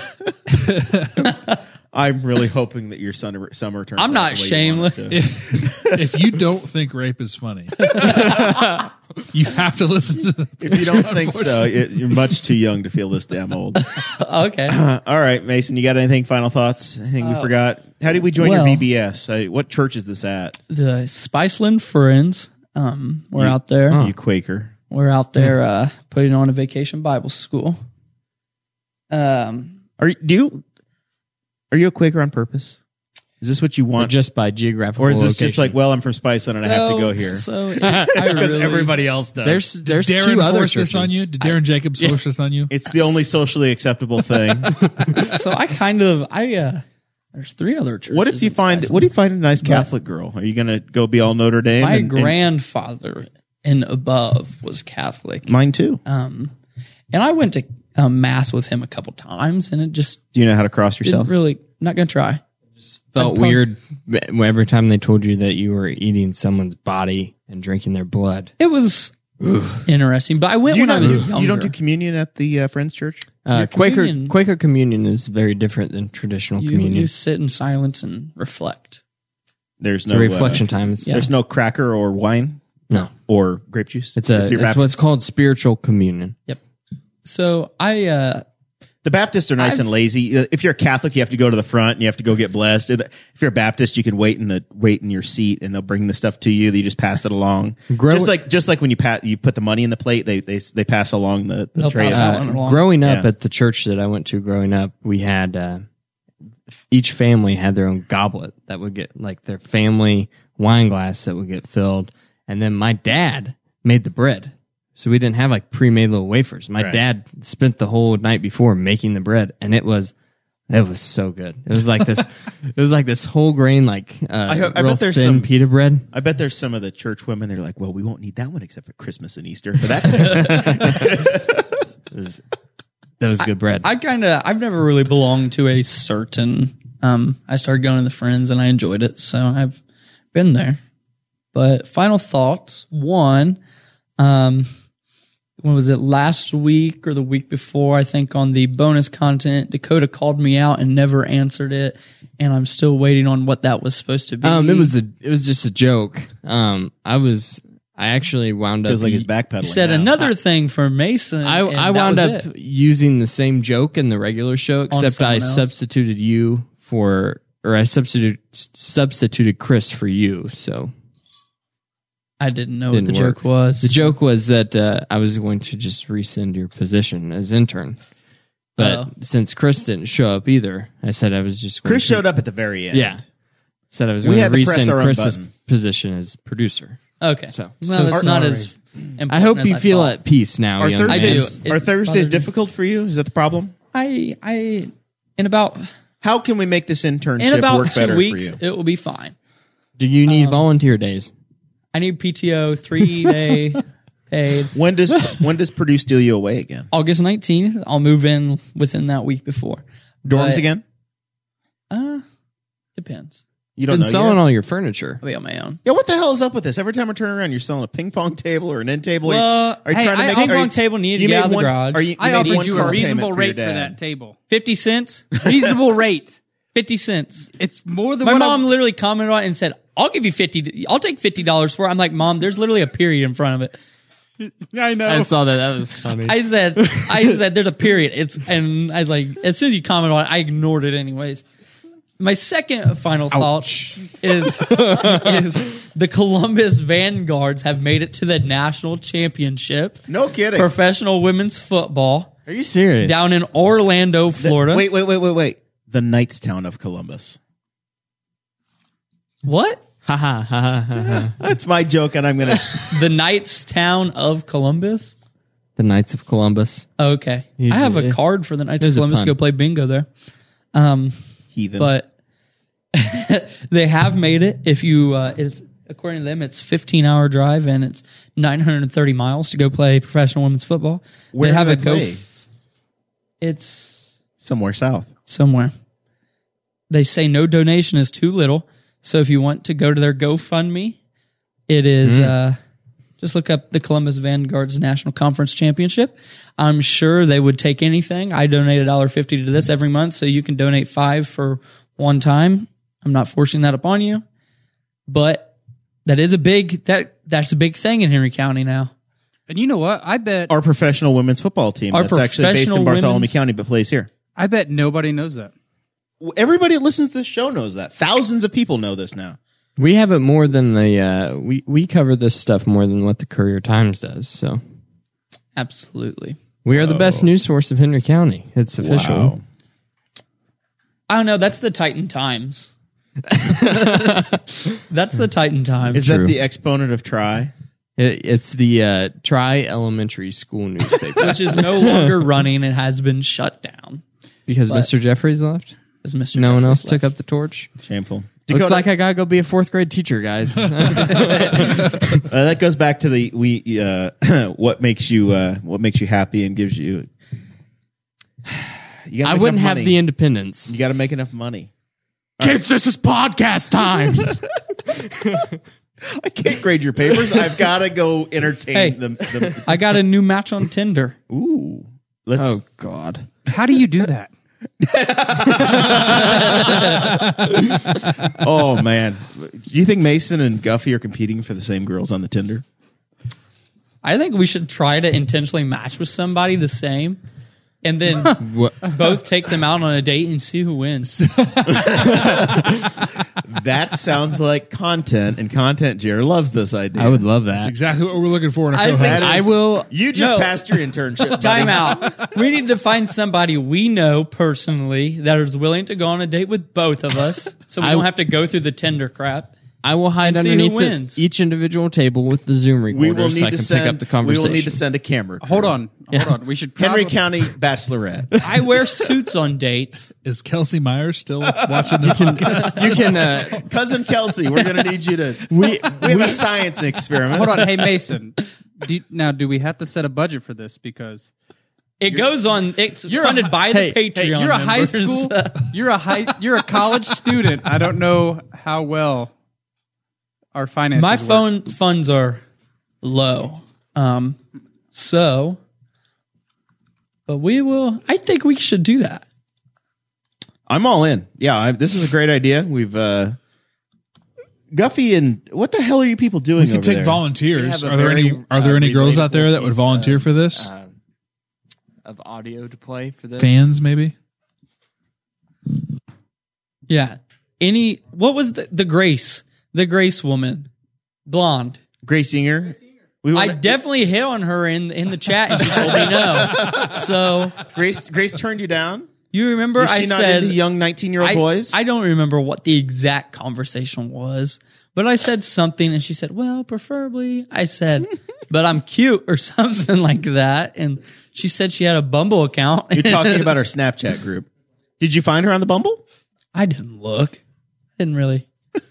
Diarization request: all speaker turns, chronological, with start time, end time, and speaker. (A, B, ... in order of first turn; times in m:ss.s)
0:00.6-0:01.1 A
0:01.9-0:06.2 B
0:04.0-0:05.1 C
0:05.1-0:11.8 A
0:07.8-0:08.4 C
0:10.6-0:13.9 B
0:14.0-0:14.8 C
0:14.7-0:20.6 B
0:17.2-0:17.5 C
0:18.4-0:18.8 C
0:20.7-0:24.0 C
0:23.4-0:24.7 B
0:24.9-0:27.8 C
0:29.1-0:29.8 C
0:30.0-0:30.6 B
0:31.7-0:32.8 B
0:33.4-0:34.1 B
0:34.0-0:35.8 D
0:35.0-0:39.7 B
0:36.6-0:39.0 C
0:39.4-0:42.2 D
0:39.8-0:42.7 A
0:42.7-0:45.0 B
0:45.2-0:46.8 C
0:47.3-0:49.1 C
0:48.1-0:52.4 B
0:49.6-0:49.9 C
0:51.8-0:55.5 C
0:55.5-0:56.0 B
0:56.1-0:56.5 C
0:57.1-1:00.2 C
1:00.3-1:01.4 B
1:01.0-1:02.4 C
1:03.1-1:08.5 D
1:03.2-1:03.6 C
1:08.6-1:09.1 C
1:09.4-1:09.8 D
1:09.8-1:11.7 C
1:10.7-1:13.2 B
1:13.4-1:17.1 D
1:13.5-1:14.4 C
1:16.6-1:19.0 C
1:19.8-1:25.0 B
1:20.1-1:21.1 D
1:24.2-1:26.4 D
1:27.2-1:28.4 C
1:29.0-1:42.5 B
1:29.6-1:29.9 C
1:37.9-1:38.3 D
1:41.8-1:42.9 C
1:42.1-1:45.8 D
1:43.0-1:43.3 B
1:46.9-2:00.1 D
2:00.7-2:06.1 D
2:04.5-2:05.5 B
2:06.1-2:11.6 B
2:10.2-2:11.0 D
2:12.1-2:12.4 D
2:13.2-2:13.9 D
2:13.4-2:19.8 C
2:20.3-2:20.8 C
2:21.5-2:23.6 C
2:24.2-2:24.7 C
2:25.6-2:34.9 C
2:34.4-2:39.3 D
2:38.9-2:40.3 B
2:39.6-2:42.5 C
2:41.4-2:50.9 D
2:44.9-2:45.7 C
2:52.4-2:54.1 C
2:52.9-2:58.0 D
2:58.8-3:02.2 D
2:58.8-2:59.1 C
3:01.8-3:03.2 B
3:02.9-3:03.2 D
3:03.9-3:08.3 D
3:04.2-3:05.5 B
3:07.2-3:10.2 C
3:08.1-3:08.4 A
3:09.3-3:11.5 D
3:10.8-3:13.7 B
3:11.1-3:12.5 C
3:13.9-3:15.9 C
3:16.2-3:18.6 B
3:17.4-3:19.4 C
3:20.0-3:21.3 D
3:20.3-3:20.6 C
3:21.9-3:24.7 C
3:24.7-3:26.9 B
3:26.9-3:30.6 C
3:30.3-3:30.8 B
3:31.9-3:32.2 C
3:33.0-3:33.4 C
3:33.8-3:34.4 B
3:33.9-3:35.2 D
3:35.2-3:35.8 C
3:35.8-3:44.0 B
3:39.2-3:43.0 C
3:39.9-3:40.6 E
3:42.2-3:44.4 E
3:44.5-3:45.4 C
3:45.4-3:46.4 E
3:46.7-3:47.5 C
3:47.6-3:48.7 E
3:48.2-3:53.8 C
3:54.5-3:55.3 E
3:55.0-3:57.1 D
3:56.2-4:01.4 C
4:02.2-4:12.4 C
4:04.7-4:05.2 D
4:10.1-4:10.7 B
4:12.5-4:13.2 D
4:13.0-4:14.9 C
4:14.4-4:17.4 B
4:19.4-4:19.8 C
4:20.1-4:21.3 D
4:21.2-4:23.1 B
4:22.9-4:25.1 C
4:25.8-4:26.9 D
4:27.0-4:30.1 C
4:27.6-4:28.2 D
4:28.8-4:29.4 D
4:30.7-4:31.2 C
4:31.6-4:31.9 B
4:31.8-4:32.1 C
4:33.0-4:42.3 C
4:41.3-4:42.2 B
4:43.4-4:44.1 C
4:44.4-4:45.1 B
4:45.3-4:45.7 C
4:46.9-4:51.0 C
4:51.7-4:52.6 C
4:52.0-4:52.3 D
4:53.2-5:04.2 C
5:05.1-5:05.5 C
5:06.1-5:08.9 C
5:09.5-5:10.5 E
5:10.5-5:14.1 B
5:11.9-5:13.4 C
5:14.4-5:15.5 E
5:16.2-5:19.4 B
5:19.8-5:24.6 D
5:25.6-5:26.4 C
5:26.6-5:29.4 D
5:26.7-5:27.3 B
5:28.8-5:29.4 B
5:31.1-5:32.7 C
5:33.4-5:34.1 D
5:33.4-5:36.1 C
5:35.9-5:37.5 B
5:36.0-5:36.3 D
5:38.0-5:42.1 D
5:41.2-5:44.0 C
5:44.5-5:45.8 D
5:46.0-5:47.1 C
5:46.3-5:47.7 D
5:47.8-5:48.9 B
5:48.5-5:52.2 D
5:52.2-5:57.1 B
5:58.4-6:00.0 B
5:59.2-6:00.8 D
6:00.7-6:01.7 B
6:02.4-6:04.4 D
6:06.0-6:09.7 B
6:08.7-6:09.0 C
6:09.5-6:11.2 C
6:11.3-6:12.6 B
6:12.4-6:13.3 D
6:13.5-6:14.3 E
6:14.8-6:17.2 B
6:16.1-6:17.2 C
6:17.8-6:22.6 B
6:24.0-6:27.2 C
6:27.8-6:31.2 C
6:28.4-6:28.9 D
6:31.2-6:31.9 A
6:31.7-6:32.6 B
6:33.4-6:37.2 B
6:37.0-6:37.7 D
6:37.6-6:39.5 A
6:38.7-6:39.5 C
6:39.0-6:42.3 B
6:39.2-6:39.9 D
6:40.1-6:40.7 C
6:41.3-6:49.5 C
6:47.8-6:48.1 D
6:49.8-6:54.8 D
6:50.2-6:51.2 C
6:52.9-6:55.8 B
6:55.4-6:57.2 E
6:56.8-6:58.3 B
6:58.4-7:00.1 C
7:00.2-7:03.3 A
7:01.7-7:02.0 B
7:02.0-7:03.6 D
7:03.5-7:07.7 B
7:05.5-7:06.4 D
7:07.3-7:11.3 E
7:12.0-7:15.8 C
7:12.1-7:12.4 E
7:13.1-7:13.6 E
7:13.7-7:14.0 D
7:14.1-7:19.3 E
7:20.5-7:21.5 E
7:20.9-7:22.4 C
7:23.0-7:24.4 C
7:24.9-7:25.6 C
7:27.3-7:29.2 C
7:30.7-7:33.4 B
7:34.7-7:37.2 B
7:36.6-7:40.7 A
7:37.5-7:40.9 D
7:42.0-7:43.6 D
7:43.4-7:44.2 A
7:46.9-7:50.7 C
7:51.3-7:51.8 C
7:52.1-7:53.8 B
7:53.3-7:57.6 C
7:55.9-7:56.9 B
7:57.7-7:59.1 B
7:59.3-8:00.6 C
7:59.8-8:01.8 B
8:01.2-8:13.6 C
8:12.9-8:14.5 B
8:15.0-8:16.0 B
8:16.5-8:17.4 C
8:18.0-8:18.4 C